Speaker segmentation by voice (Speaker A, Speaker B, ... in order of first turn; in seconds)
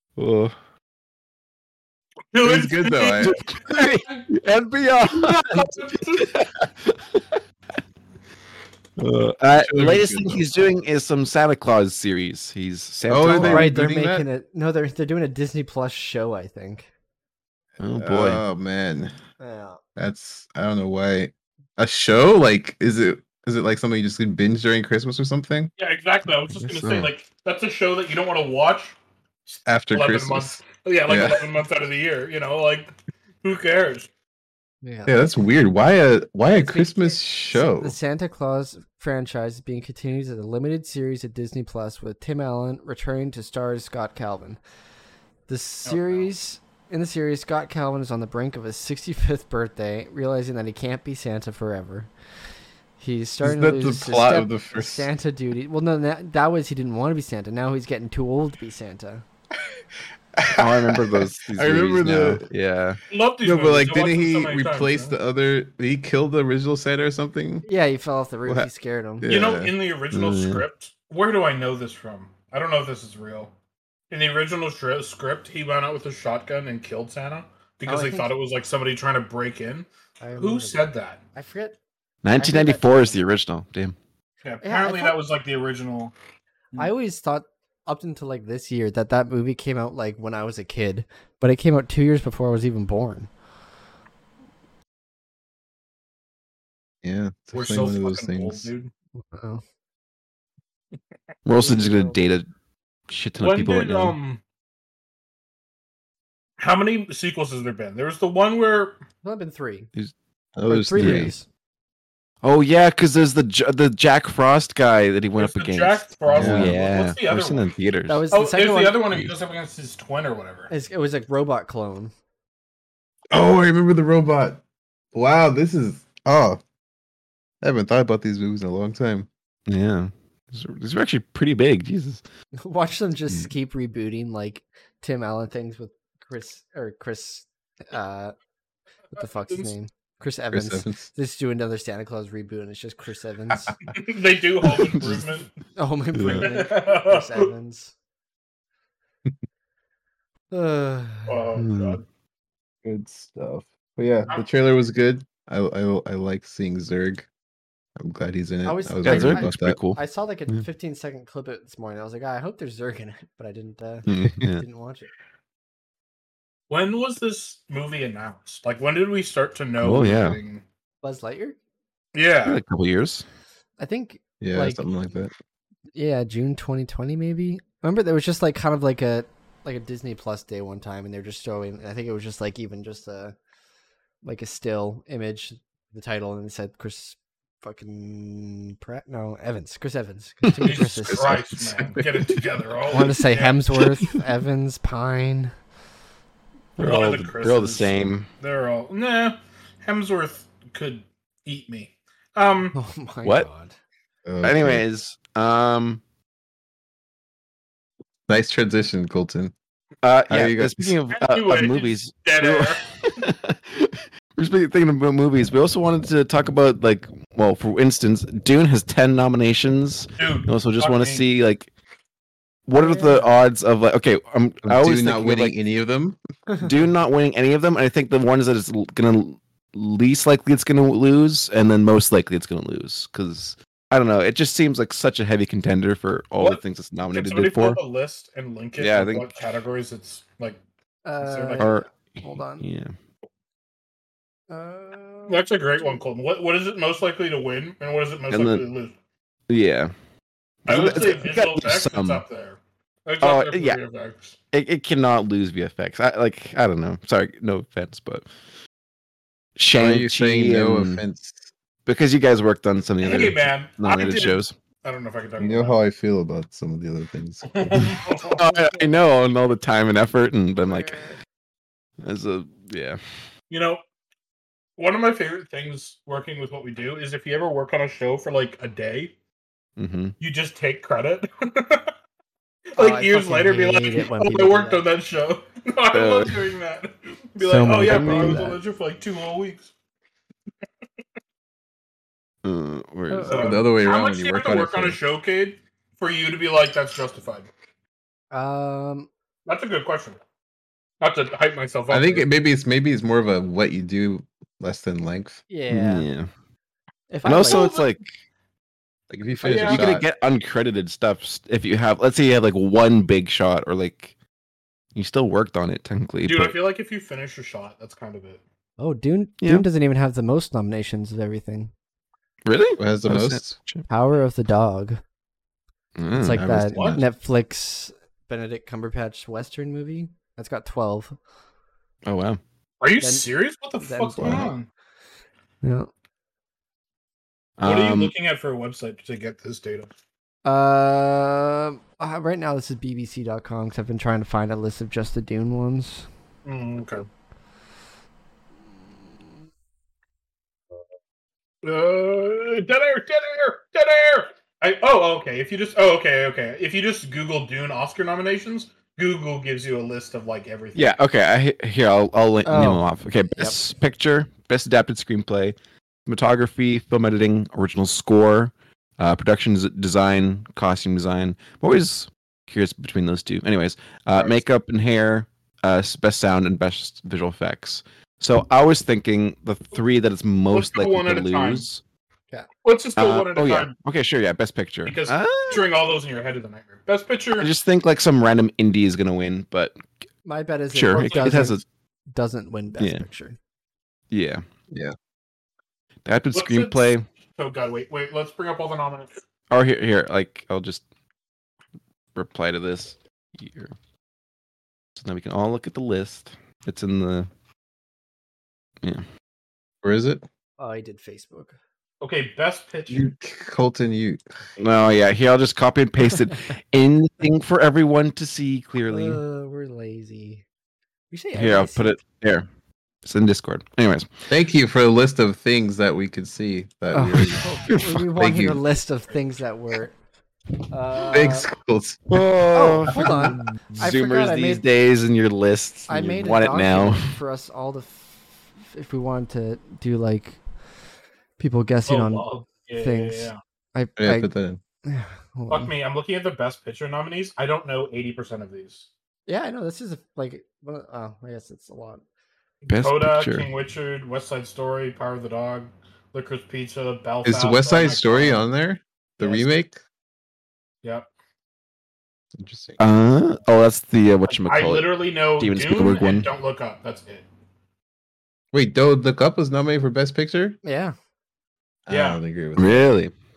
Speaker A: 0.2-0.5, 3.2-7.4, 9.0-13.7, 17.8-18.4, 60.5-63.0, 70.1-70.6, 82.2-84.0, 101.4-102.5, 103.1-104.2, 111.0-111.3, 112.4-118.3, 119.1-119.4, 129.7-132.2, 144.8-145.2, 146.2-146.5, 151.6-152.0, 159.0-160.6, 164.1-164.6, 169.8-170.4, 172.4-173.2, 190.4-191.3, 196.8-198.3, 204.4-206.0, 210.0-221.7, 222.7-225.5, 226.6-237.8, 238.8-239.4, 241.6-242.9, 248.3-248.6, 249.5-249.9, 250.7-252.2, 253.2-253.8, 254.5-258.3, 259.6-261.0, 261.9-264.5, 268.2-271.0, 272.0-273.0, 279.8-280.1, 285.9-286.5, 287.7-288.6, 292.4-293.4, 305.7-306.3, 307.2-308.1, 309.6-314.1, 314.9-316.6, 322.4-323.9, 326.0-326.4, 332.0-332.4, 337.6-338.1, 360.8-365.5, 366.1-381.8, 383.0-385.6, 387.4-389.8, 390.7-391.6, 392.8-393.0, 394.1-394.4, 396.1-397.0, 399.5-400.8, 402.1-403.7, 405.0-407.3, 414.6-419.2, 421.4-422.5, 423.0-424.2, 432.1-437.2, 452.7-453.5, 462.8-466.3, 472.6-473.1
Speaker B: 2.3-3.4, 5.3-6.4, 25.8-34.1, 45.8-46.3, 63.1-65.2, 69.2-73.5, 74.1-81.2, 84.4-86.1, 97.5-98.9, 103.4-104.4, 106.6-109.0, 115.4-117.7, 118.3-120.7, 139.2-139.7, 143.9-145.5, 146.3-147.5, 151.3-152.0, 166.7-170.6, 172.1-172.6, 190.6-193.6, 196.8-202.8, 211.1-212.8, 220.2-221.2, 237.1-240.6, 241.2-241.8, 245.3-248.9, 250.7-254.4, 263.0-265.8, 267.5-268.6, 273.5-273.8, 274.8-279.1, 280.2-281.9, 282.8-289.7, 293.2-297.5, 299.5-300.2, 301.0-302.2, 307.4-307.9, 309.4-309.9, 316.2-318.4, 326.7-327.0, 332.8-334.7, 337.6-339.9, 346.4-347.1, 351.6-360.9, 380.5-381.6, 382.6-383.7, 384.9-387.5, 390.9-391.5, 396.3-399.1, 412.0-413.1, 441.9-443.4, 445.5-448.9, 452.6-458.4, 459.2-459.5, 460.8-461.1, 464.3-467.2, 471.9-472.2
Speaker C: 2.4-3.4, 9.6-10.5, 13.1-14.2, 18.0-19.1, 19.9-25.7, 26.6-27.1, 29.6-31.4, 35.1-38.0, 53.4-55.1, 60.4-62.4, 63.4-67.7, 69.2-69.7, 97.0-98.7, 110.5-111.3, 116.3-116.8, 123.3-124.6, 125.1-126.6, 127.6-129.3, 140.5-141.1, 152.8-157.3, 158.0-159.8, 174.4-175.3, 204.2-204.8, 208.3-209.5, 210.3-211.0, 224.7-226.2, 259.8-261.5, 265.4-268.0, 293.3-295.0, 301.9-305.4, 309.1-310.0, 322.8-323.6, 326.2-327.0, 409.8-410.2, 412.9-414.2, 424.3-427.5, 428.1-428.6, 431.1-432.0, 433.0-433.2, 444.0-444.6, 457.2-459.8, 462.4-462.8, 468.5-470.6, 471.9-472.9
Speaker D: 13.3-16.9, 19.4-19.8, 34.8-35.2, 36.5-44.6, 45.5-52.1, 53.0-59.2, 67.6-69.2, 77.9-78.3, 80.2-80.8, 81.3-81.8, 82.3-83.2, 84.6-85.2, 86.8-93.3, 99.2-99.6, 101.6-102.2, 109.2-109.9, 110.6-111.5, 118.1-119.0, 120.7-122.1, 132.6-138.3, 139.1-143.8, 145.8-147.9, 150.5-151.6, 158.6-165.1, 171.0-171.6, 173.8-174.8, 175.9-183.3, 184.2-191.5, 192.9-195.5, 202.7-203.8, 222.8-223.3, 226.5-226.7, 241.0-242.6, 244.5-246.0, 270.6-271.2, 282.8-284.9, 287.4-288.6, 293.1-293.5, 298.3-299.1, 305.5-306.1, 307.1-307.7, 318.8-321.7, 323.9-325.0, 326.1-331.2, 333.0-333.3, 333.8-334.5, 335.6-335.9, 340.4-346.1, 362.4-362.9, 390.2-391.6, 392.1-393.4, 410.6-411.6, 418.9-420.4, 421.1-421.9, 426.9-429.9, 430.7-431.5, 432.5-434.6, 435.9-440.4, 441.4-444.3, 444.9-445.7, 449.3-452.0, 470.6-470.9